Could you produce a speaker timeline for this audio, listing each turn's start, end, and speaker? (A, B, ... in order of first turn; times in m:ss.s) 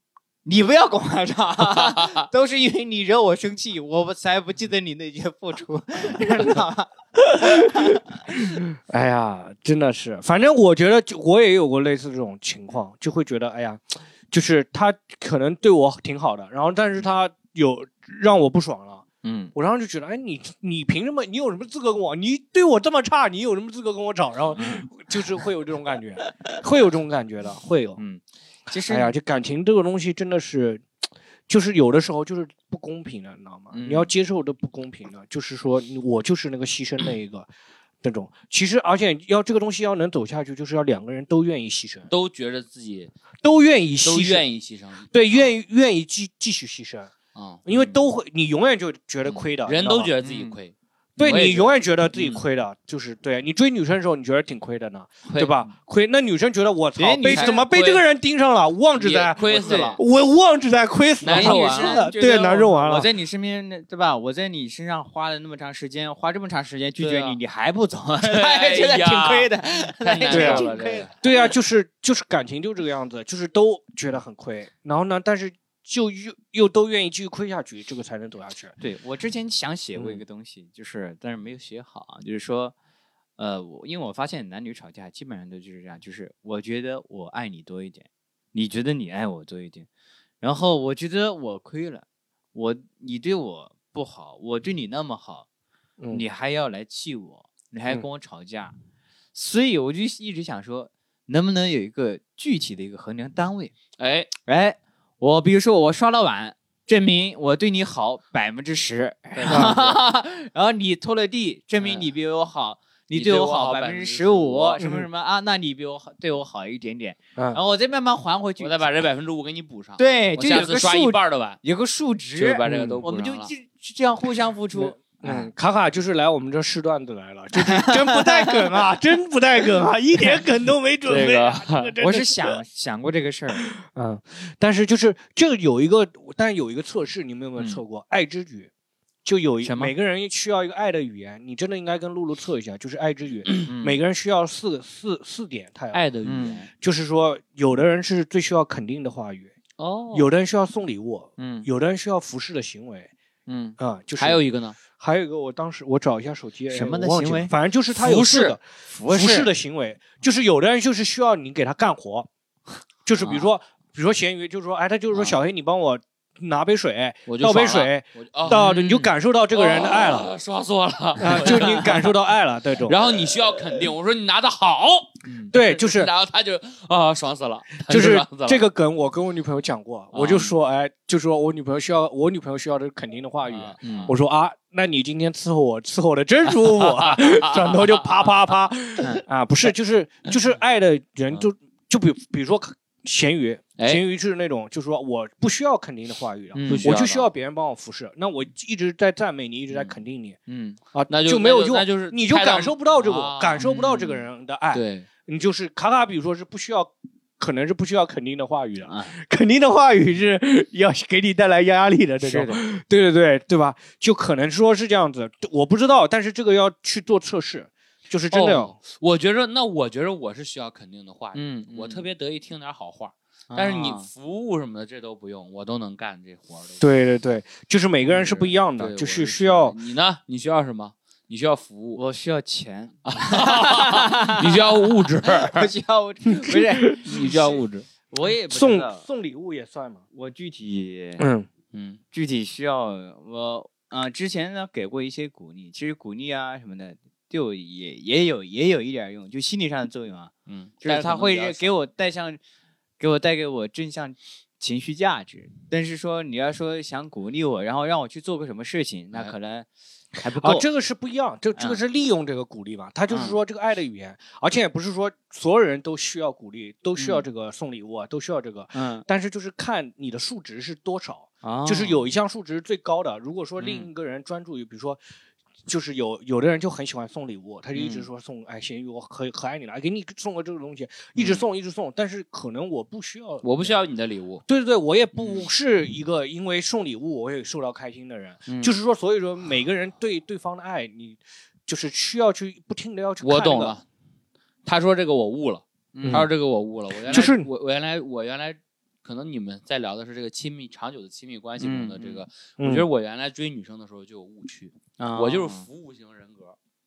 0:00.4-0:08.4 A
0:01.6-0:02.3 B
0:07.2-0:28.0 C
0:19.2-0:19.5 A
0:24.6-0:24.9 A
0:28.0-0:29.1 A
0:28.9-0:30.8 C
0:31.5-0:37.5 C
0:33.7-0:34.1 A
0:38.0-0:42.1 C
0:42.1-0:43.1 B
0:43.4-0:44.4 C
0:44.0-0:45.5 B
0:45.1-0:47.1 C
0:47.4-0:47.7 B
0:47.7-0:50.1 C
0:47.7-0:48.0 A
0:49.6-0:52.4 B
0:50.2-0:50.6 A
0:51.2-1:03.1 C
0:55.3-0:55.6 B
0:57.0-0:57.6 A
0:57.2-0:58.1 B
0:59.0-1:00.0 B
0:59.5-1:00.0 A
1:01.2-1:02.0 B
1:01.2-1:11.1 A
1:07.0-1:07.4 B
1:08.2-1:11.2 B
1:10.3-1:10.7 C
1:11.2-1:18.8 C
1:18.8-1:22.8 A
1:20.0-1:20.2 C
1:23.4-1:29.9 A
1:30.4-1:35.5 A
1:36.1-1:38.7 A
1:39.3-1:43.7 A
1:44.0-1:44.3 B
1:44.4-1:58.9 A
1:49.3-1:50.0 B
1:49.5-1:49.8 C
1:51.8-1:52.1 B
1:53.1-1:54.8 B
1:54.8-1:55.1 C
1:58.6-2:01.6 B
2:00.0-2:05.5 A
2:02.4-2:03.5 B
2:02.7-2:03.0 C
2:04.8-2:12.6 C
2:07.6-2:08.8 A
2:11.1-2:11.9 B
2:12.0-2:13.6 A
2:13.6-2:18.7 C
2:19.2-2:26.0 C
2:19.6-2:19.9 A
2:23.6-2:24.0 A
2:25.9-2:26.7 B
2:26.2-2:26.6 A
2:26.8-2:29.5 C
2:29.8-2:30.3 B
2:30.1-2:33.1 C
2:31.4-2:31.7 A
2:33.5-2:33.8 A
2:33.8-2:42.3 C
2:34.2-2:34.8 B
2:36.7-2:37.5 A
2:38.0-2:38.6 B
2:38.9-2:39.5 A
2:43.0-2:50.3 C
2:43.2-2:43.5 A
2:47.3-2:48.7 B
2:48.5-2:49.1 A
2:49.5-2:52.0 B
2:51.2-2:53.0 C
2:51.4-2:51.7 A
2:52.9-2:58.7 B
2:55.5-2:56.1 C
2:57.9-3:20.4 C
3:00.1-3:00.5 B
3:03.5-3:04.1 B
3:03.8-3:04.2 A
3:06.8-3:08.3 B
3:09.0-3:09.2 A
3:16.5-3:16.9 A
3:16.7-3:17.3 B
3:20.5-3:20.8 A
3:20.9-3:38.8 C
3:21.1-3:24.0 B
3:23.6-3:24.1 A
3:24.7-3:25.1 B
3:28.9-3:29.1 A
3:32.2-3:32.6 A
3:38.3-3:46.8 B
3:41.4-3:42.1 A
3:43.5-3:44.1 A
3:46.8-3:49.8 C
3:48.1-3:52.0 B
3:52.0-3:57.6 A
3:53.1-3:55.7 B
3:56.3-3:57.6 C
3:57.0-3:57.9 B
3:58.1-3:59.1 A
3:58.5-4:00.0 C
4:00.1-4:01.3 A
4:01.2-4:01.5 C
4:01.7-4:02.0 B
4:02.1-4:12.4 A
4:10.5-4:11.7 B
4:13.0-4:20.7 A
4:20.4-4:35.0 C
4:21.6-4:21.8 A
4:23.1-4:23.4 A
4:27.0-4:27.3 A
4:28.7-4:29.1 A
4:31.4-4:32.0 A
4:35.7-4:43.7 C
4:37.8-4:38.1 A
4:43.4-4:44.4 B
4:44.5-4:53.8 C
4:53.2-4:53.8 B
4:54.6-5:06.6 B
4:55.9-4:56.3 A
4:56.0-4:56.3 C
4:57.1-4:57.5 C
5:01.6-5:02.2 A
5:02.6-5:02.9 C
5:05.0-5:05.7 A